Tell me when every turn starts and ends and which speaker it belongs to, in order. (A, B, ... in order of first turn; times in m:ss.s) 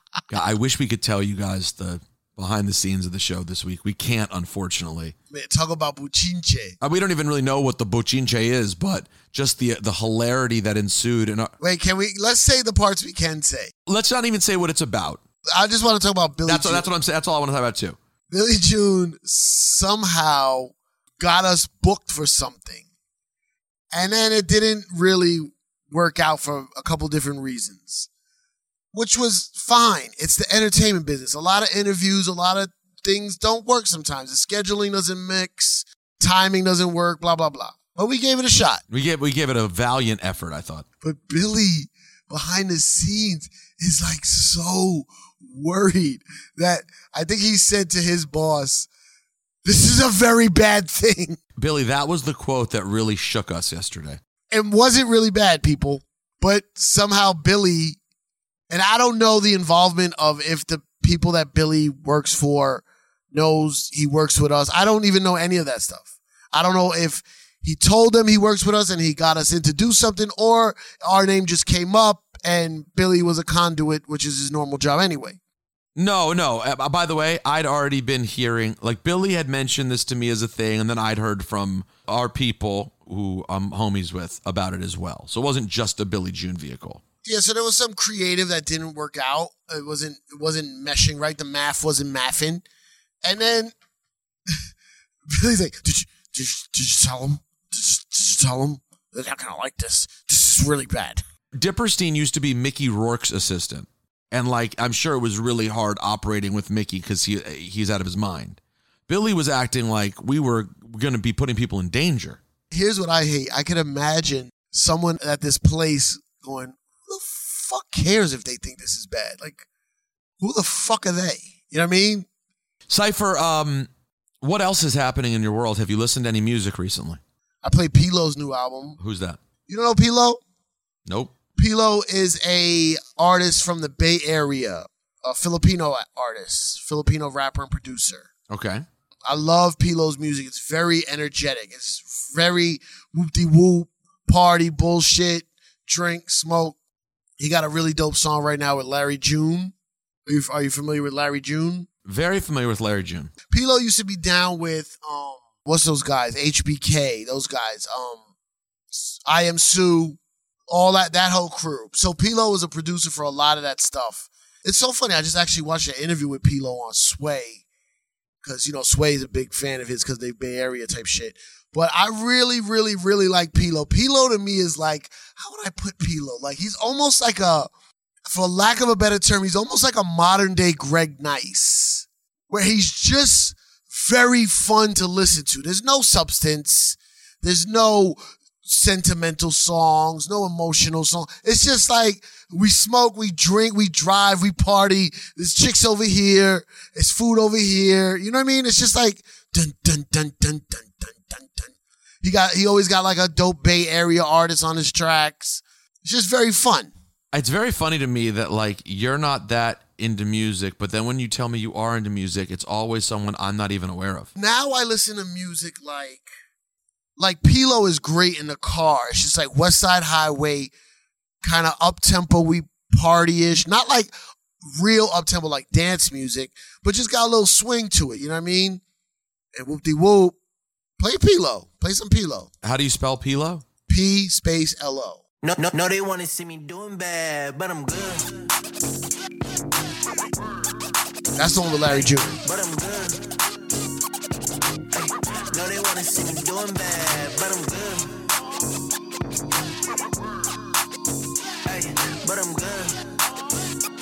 0:00.3-0:05.1 A
0:05.3-0:06.8 B
0:06.8-0:11.5 A
0:11.6-0:13.7 B
0:13.9-0:15.2 A
0:15.5-0:16.9 B
0:16.4-0:18.0 A
0:18.3-0:22.8 B
0:23.9-0:28.1 B
0:28.9-0:38.8 B
0:38.9-0:40.8 A
0:41.0-0:48.9 B
0:49.6-0:51.4 B
0:51.6-0:54.2 A
0:54.5-0:58.0 B
0:58.7-1:15.4 B
1:16.0-1:27.0 A
1:27.2-1:32.6 B
1:33.2-1:33.7 B
1:35.3-1:41.2 B
1:41.5-1:52.4 A
1:52.7-1:59.6 B
2:00.4-2:02.3 B
2:02.9-2:03.9 A
2:04.4-2:07.2 A
2:07.6-2:09.0 B
2:09.0-2:09.4 A
2:09.7-2:10.4 B
2:11.1-2:11.3 A
2:11.6-2:18.3 B
2:18.5-2:18.8 A
2:19.2-2:26.8 B
2:27.4-2:29.7 B
2:30.2-2:31.9 B
2:32.0-2:33.3 A
2:33.5-2:38.2 B
2:38.9-2:47.6 B
2:48.4-2:57.7 B
2:58.2-3:26.9 B
3:27.3-3:34.3 A
3:34.4-3:36.3 B
3:37.2-3:40.7 B
3:41.4-3:44.1 B
3:44.7-3:48.8 B
3:49.5-3:50.4 B
3:51.0-3:52.5 B
3:52.6-3:53.6 A
3:53.9-3:55.2 B
3:55.5-3:58.3 C
4:01.4-4:02.4 B
4:02.4-4:03.2 C
4:04.9-4:08.2 C
4:11.6-4:13.0 C